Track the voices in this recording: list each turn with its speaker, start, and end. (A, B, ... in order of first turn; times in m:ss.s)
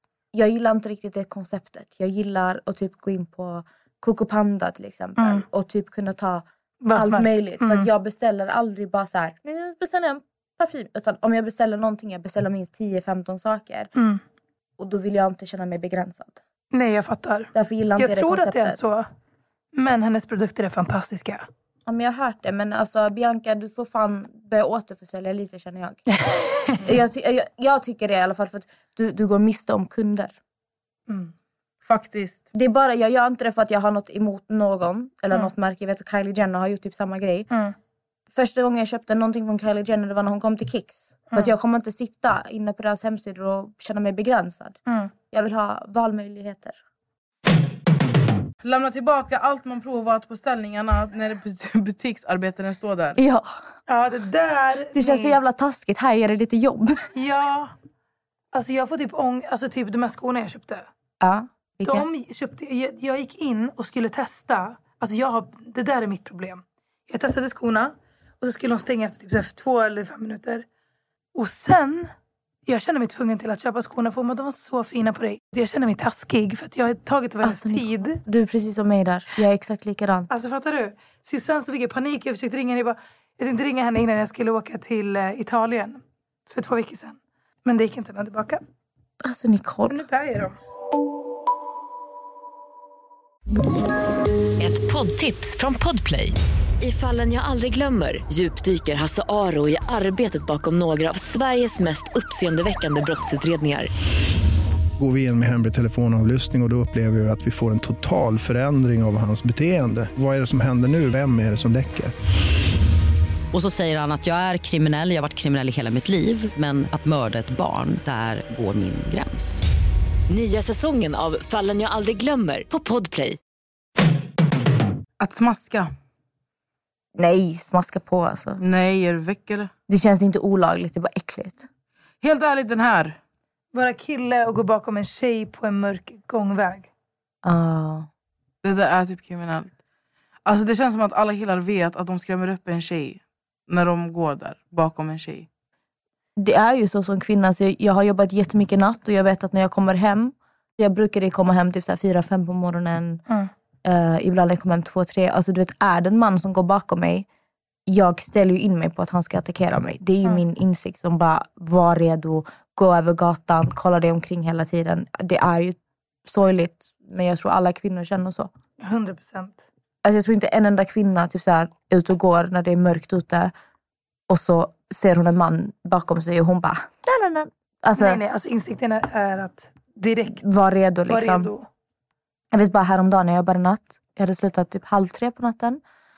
0:00.3-0:13.9 A
0:05.2-0:05.4 B
0:06.8-0:07.9 B
0:14.0-0:14.2 B
0:14.8-0:16.4 A
0:16.7-0:19.1 B
0:17.5-0:18.8 A
0:19.8-0:21.5 B
0:21.9-0:26.0 A
0:26.3-0:26.8 B
0:26.7-0:30.4 A
0:31.8-0:32.5 C
0:32.5-0:37.5 A
0:38.3-0:44.8 A
0:45.3-0:46.8 A
0:48.6-0:53.2 C
0:53.2-0:53.6 A
0:53.9-0:55.4 B
0:54.9-0:57.0 A
0:57.1-0:57.7 B
0:58.5-1:00.9 B
1:01.2-1:02.1 A
1:01.8-1:10.7 B
1:11.4-1:12.1 B
1:12.7-1:18.2 B
1:17.4-1:20.3 A
1:20.3-1:28.6 B
1:29.2-1:30.0 A
1:29.9-1:30.6 B
1:34.6-1:43.9 D
1:45.0-1:52.1 E
1:53.5-1:59.6 F
2:00.3-2:03.4 D
2:05.2-2:05.9 C
2:07.2-2:08.6 A
2:08.6-2:09.7 C
2:09.9-2:11.7 A
2:12.2-2:13.2 C
2:13.7-2:16.9 B
2:17.4-2:18.1 A
2:18.6-2:19.7 C
2:20.5-2:25.5 C
2:26.4-2:33.2 A
2:33.8-2:37.3 A
2:37.9-2:48.5 A
2:48.8-2:49.6 B
2:50.0-2:53.5 A
2:54.3-2:58.2 A
2:58.0-3:00.4 B
3:00.4-3:01.5 A
3:01.1-3:01.7 B
3:02.5-3:05.8 A